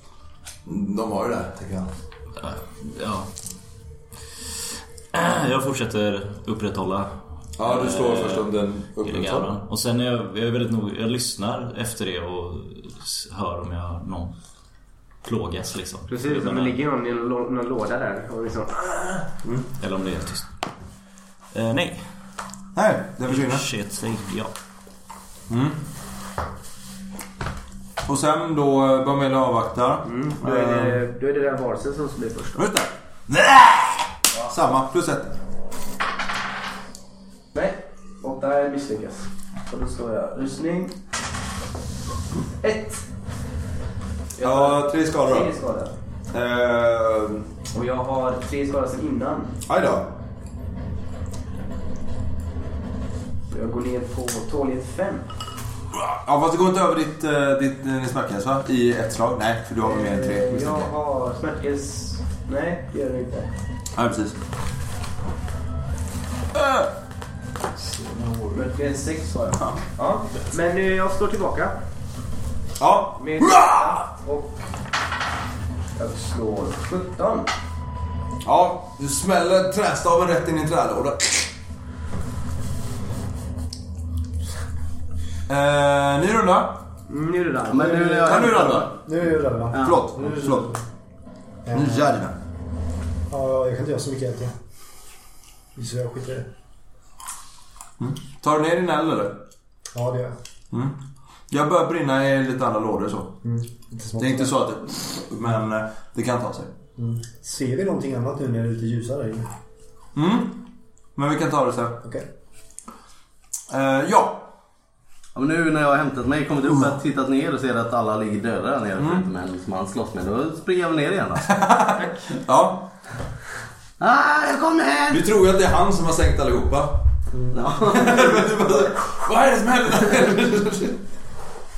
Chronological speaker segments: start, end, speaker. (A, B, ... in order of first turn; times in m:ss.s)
0:00.6-0:01.9 A
0:02.4-0:03.3 B
0:05.1-0:08.5 B
0:07.6-0:09.5 A
0:09.0-0:14.3 B
0:15.2-0:16.8 B
0:16.1-0:19.3 C
0:19.8-0:20.5 B
0:21.5-0:22.1 B
0:22.8-0:23.7 A
0:23.3-0:24.5 B
0:25.5-0:25.8 A
0:28.0-0:31.0 A
0:30.0-0:32.7 C
0:32.6-0:35.3 A
0:37.5-0:41.0 C
0:42.6-0:43.0 C
0:44.4-0:45.9 C
0:44.4-0:45.5 A
0:46.3-0:47.4 A
0:47.7-0:49.6 C
0:49.7-0:50.1 A
0:53.5-0:55.3 C
0:55.9-1:00.9 A
0:59.8-1:03.5 C
1:04.0-1:04.4 A
1:06.5-1:06.9 A
1:07.8-1:08.7 B
1:08.5-1:11.8 C
1:09.5-1:09.8 A
1:12.8-1:14.0 A
1:13.2-1:14.6 C
1:16.0-1:17.5 C
1:18.4-1:21.5 A
1:25.5-1:26.8 A
1:27.1-1:28.8 C
1:27.7-1:28.9 D
1:28.2-1:28.9 A
1:29.0-1:30.8 E
1:29.7-1:30.1 D
1:29.7-1:30.7 A
1:31.7-1:32.2 E
1:31.7-1:32.4 A
1:33.3-1:34.6 E
1:35.8-1:36.5 E
1:38.0-1:39.4 A
1:39.9-1:40.4 E
1:40.7-1:41.0 A
1:41.5-1:43.4 A
1:43.4-1:44.5 E
1:44.2-1:46.7 A
1:47.0-1:49.5 E
1:50.2-1:50.6 A
1:51.2-1:52.0 A
1:53.7-1:54.5 A
1:55.4-2:01.6 D
1:59.0-1:59.2 A
2:01.5-2:02.9 A
2:04.0-2:05.2 D
2:05.1-2:07.0 A
2:07.5-2:08.8 D
2:07.8-2:11.0 A